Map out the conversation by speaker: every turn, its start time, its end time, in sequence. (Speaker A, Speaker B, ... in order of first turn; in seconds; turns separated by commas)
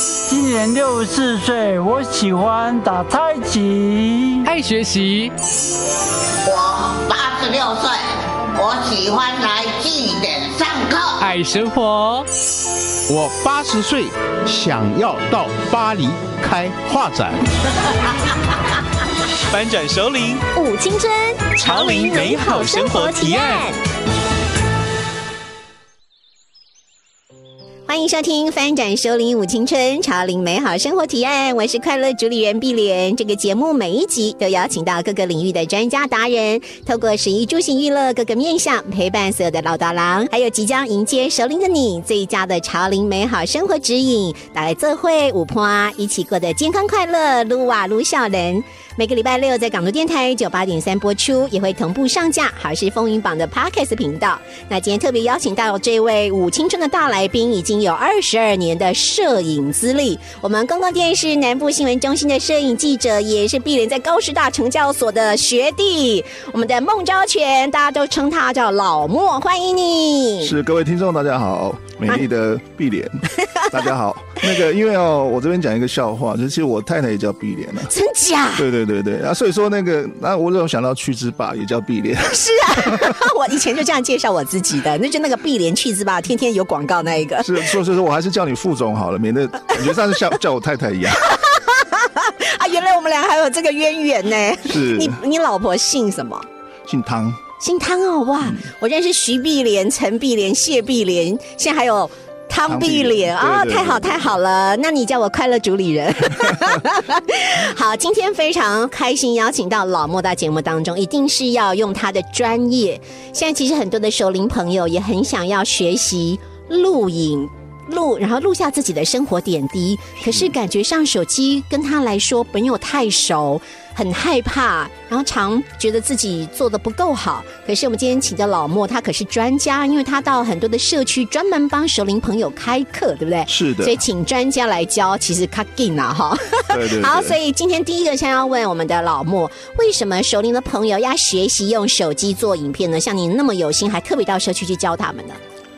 Speaker A: 0.3-4.4, Speaker B: 4.4-5.3, Speaker C: 6.4-11.2, Speaker B: 11.2-12.3, Speaker D: 13.1-17.4, Speaker E: 19.5-20.4, Speaker F: 20.5-23.8, Speaker E: 21.6-23.7, Speaker F: 27.9-70.5, Speaker G: 70.4-77.9, Speaker F: 73.4-73.7, Speaker F: 77.9-78.7, Speaker G: 78.5-83.2, Speaker F: 82.3-87.7, Speaker G: 87.4-91.2, Speaker F: 91.2-96.5, Speaker G: 94.6-95.2, Speaker G: 96.8-97.4, Speaker F: 97.6-145.4, Speaker G: 102.7-104.3, Speaker G: 120.2-120.5, Speaker G: 133.5-134.0, Speaker G: 136.7-137.4